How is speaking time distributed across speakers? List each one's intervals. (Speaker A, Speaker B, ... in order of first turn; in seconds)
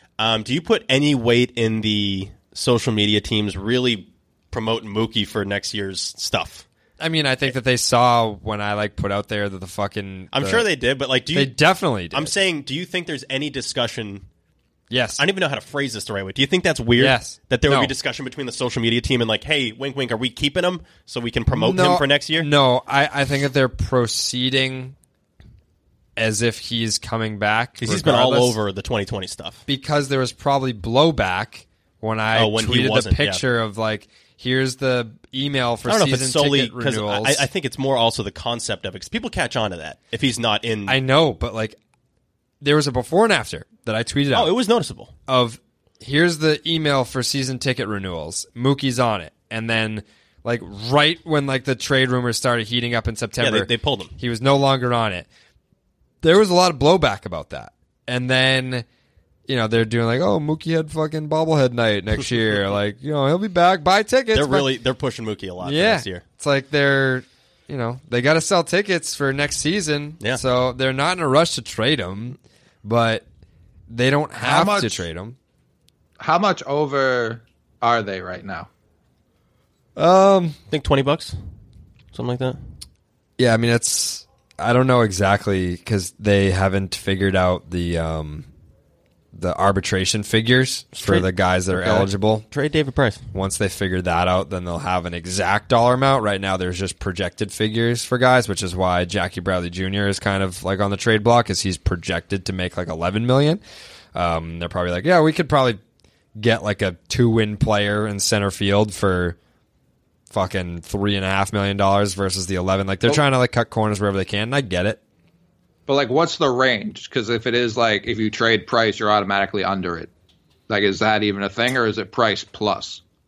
Speaker A: 0.2-6.6, 10.3-11.6, 12.1-14.2, 15.2-22.5, 27.8-29.6, 32.3-33.4, 35.9-41.0, 44.3-45.1, 53.4-54.1, 64.3-66.2, 80.7-81.3, 82.1-82.6, 90.9-93.2
Speaker B: 7.0-10.7, 11.3-12.3, 14.9-15.2, 17.0-17.9, 21.5-24.9, 26.2-28.6, 29.7-37.5, 40.9-41.8, 42.6-44.5, 45.3-55.3, 56.2-58.9, 59.5-64.7, 65.6-73.2, 73.9-75.4, 80.0-80.6, 83.4-88.5, 89.3-92.5, 93.3-103.6, 104.1-105.8, 106.4-109.4, 110.3-115.0
Speaker C: 74.4-75.0, 76.2-78.7, 115.9-120.1, 120.7-123.0